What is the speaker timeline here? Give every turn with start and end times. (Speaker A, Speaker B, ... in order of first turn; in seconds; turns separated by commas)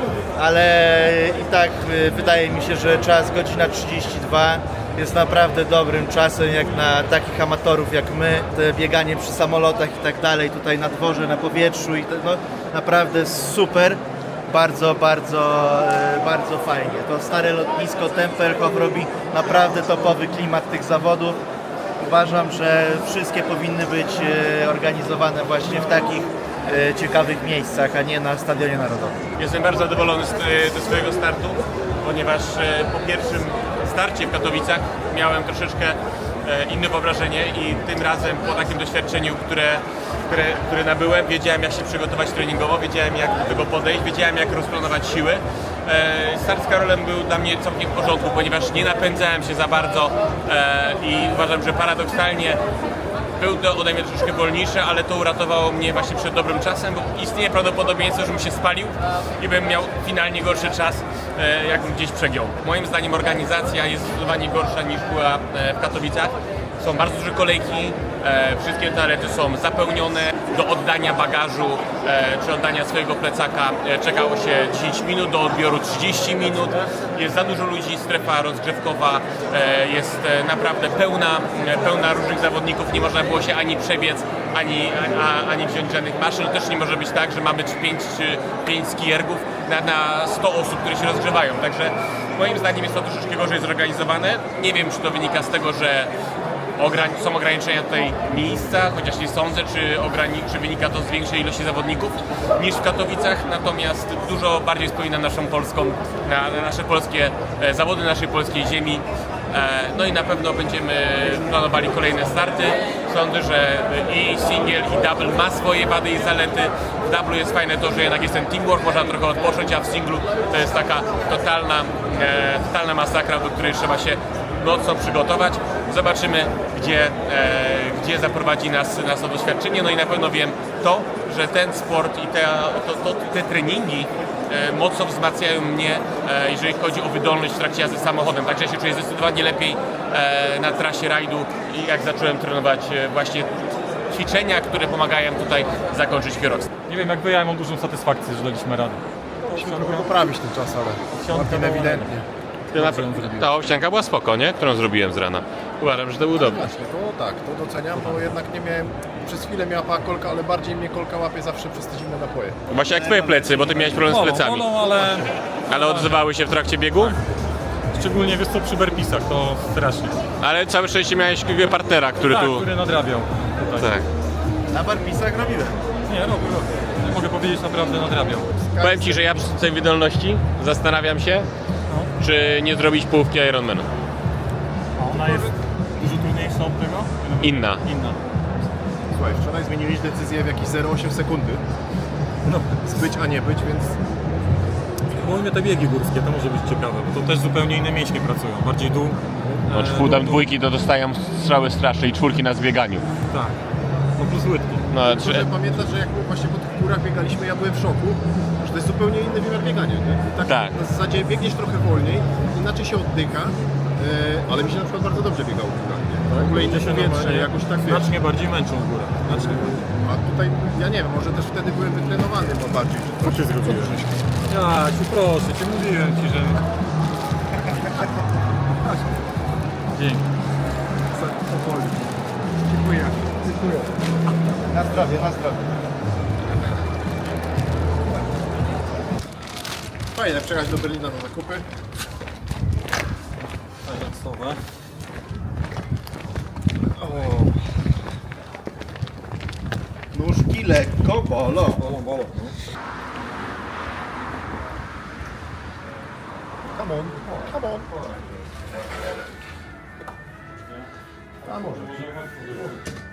Speaker A: 0.3-21.4, Speaker A: 22.0-29.2, Speaker B: 29.4-52.6, Speaker B: 53.4-96.1, Speaker B: 96.8-143.5, Speaker B: 144.1-146.7, Speaker C: 146.9-150.1, Speaker D: 149.5-152.2, Speaker C: 151.1-153.5, Speaker B: 152.7-156.7, Speaker D: 156.4-162.6, Speaker B: 162.7-165.1, Speaker A: 162.8-164.1, Speaker C: 163.9-166.2, Speaker B: 165.7-167.2, Speaker C: 167.9-170.2, Speaker B: 170.4-172.7, Speaker C: 172.2-174.0, Speaker B: 173.7-174.1, Speaker A: 174.7-175.8, Speaker C: 176.1-178.5, Speaker A: 178.8-179.1, Speaker B: 178.8-181.5, Speaker D: 179.0-179.5, Speaker B: 182.2-183.9, Speaker C: 185.0-188.2, Speaker D: 185.2-185.5, Speaker B: 187.4-187.8, Speaker D: 189.1-191.6, Speaker C: 192.4-192.9, Speaker D: 192.8-194.0, Speaker C: 195.1-200.4, Speaker B: 199.7-203.1, Speaker C: 203.3-203.6, Speaker C: 204.2-204.8, Speaker B: 204.9-205.5, Speaker D: 205.0-218.1, Speaker B: 210.4-210.7, Speaker C: 216.3-219.8, Speaker D: 219.2-224.3, Speaker C: 223.2-224.0, Speaker C: 224.5-226.6, Speaker C: 229.9-230.3, Speaker D: 231.1-232.0, Speaker D: 232.6-233.8, Speaker A: 234.7-235.8, Speaker D: 240.1-241.7, Speaker C: 243.8-244.6, Speaker D: 246.8-247.5, Speaker C: 247.1-247.5, Speaker A: 250.1-251.9, Speaker C: 251.7-252.5, Speaker D: 256.7-257.9, Speaker D: 261.4-261.9, Speaker C: 261.4-262.8